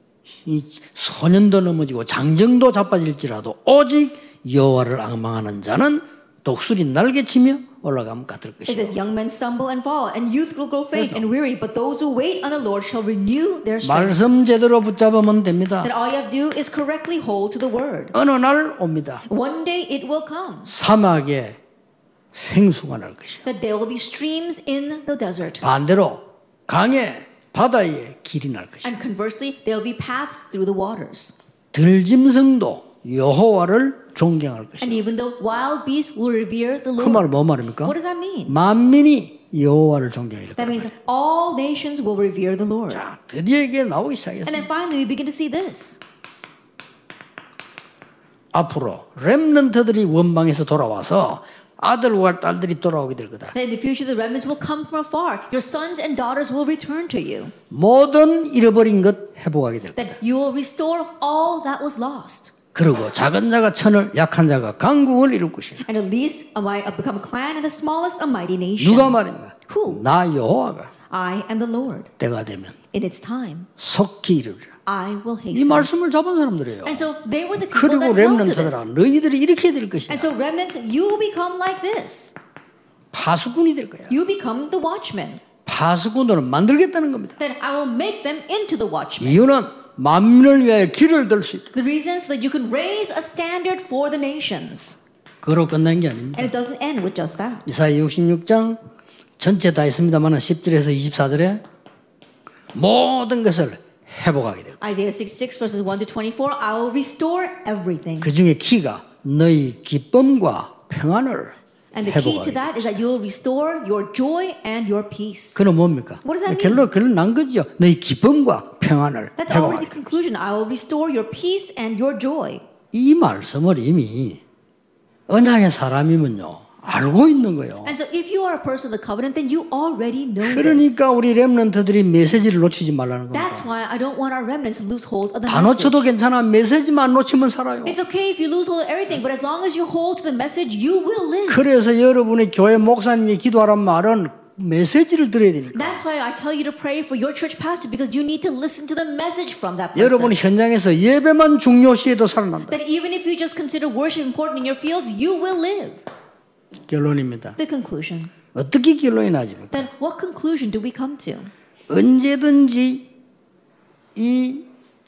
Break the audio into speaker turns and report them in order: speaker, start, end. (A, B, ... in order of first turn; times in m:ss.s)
0:00.3-0:09.0 A
0:08.7-0:14.3 B
0:10.9-0:11.2 A
0:13.8-0:15.9 A
0:15.8-0:18.1 B
0:18.1-0:19.2 A
0:19.3-0:20.7 B
0:20.7-0:21.6 A
0:22.3-0:23.4 A
0:23.4-0:25.6 B
0:25.6-0:28.9 A
0:28.8-0:31.3 B
0:31.7-0:35.0 A
0:34.8-0:37.3 B
0:37.0-0:38.0 A
0:37.8-0:38.6 B
0:38.5-0:40.9 A
0:40.6-0:43.0 B
0:42.9-0:44.7 A
0:44.4-0:46.0 B
0:48.5-0:53.5 A
0:53.5-0:57.5 B
0:57.7-1:00.2 A
1:00.0-1:02.5 B
1:02.7-1:05.8 A
1:05.8-1:10.0 B
1:08.8-1:10.9 A
1:11.1-1:12.1 B
1:12.2-1:12.8 A
1:12.9-1:13.7 B
1:13.8-1:14.7 A
1:14.8-1:15.9 B
1:15.5-1:17.1 A
1:16.8-1:18.9 B
1:17.7-1:20.3 A
1:20.1-1:22.4 B
1:23.1-1:24.2 A
1:24.1-1:25.4 B
1:25.6-1:27.4 A
1:27.4-1:29.4 B
1:29.2-1:31.7 A
1:31.7-1:35.0 B
1:35.4-1:36.5 A
1:36.3-1:37.6 B
1:37.6-1:38.8 A
1:39.4-1:41.6 A
1:42.7-1:44.8 A
1:44.8-1:48.3 B
1:48.2-1:53.0 A
1:51.9-1:55.6 B
1:55.6-2:00.2 A
1:56.2-1:56.9 B
1:59.4-2:02.6 B
2:02.9-2:04.4 A
2:05.3-2:07.9 A
2:07.8-2:11.0 B
2:10.4-2:13.7 A
2:13.3-2:16.1 B
2:15.5-2:18.0 A
2:17.8-2:21.6 B
2:21.5-2:26.0 A
2:25.7-2:30.4 B
2:29.9-2:32.8 A
2:32.7-2:36.0 B
2:36.9-2:37.6 A
2:37.6-2:38.3 B
2:38.5-2:39.9 A
2:39.7-2:41.5 B
2:41.9-2:43.1 A
2:44.1-2:44.7 A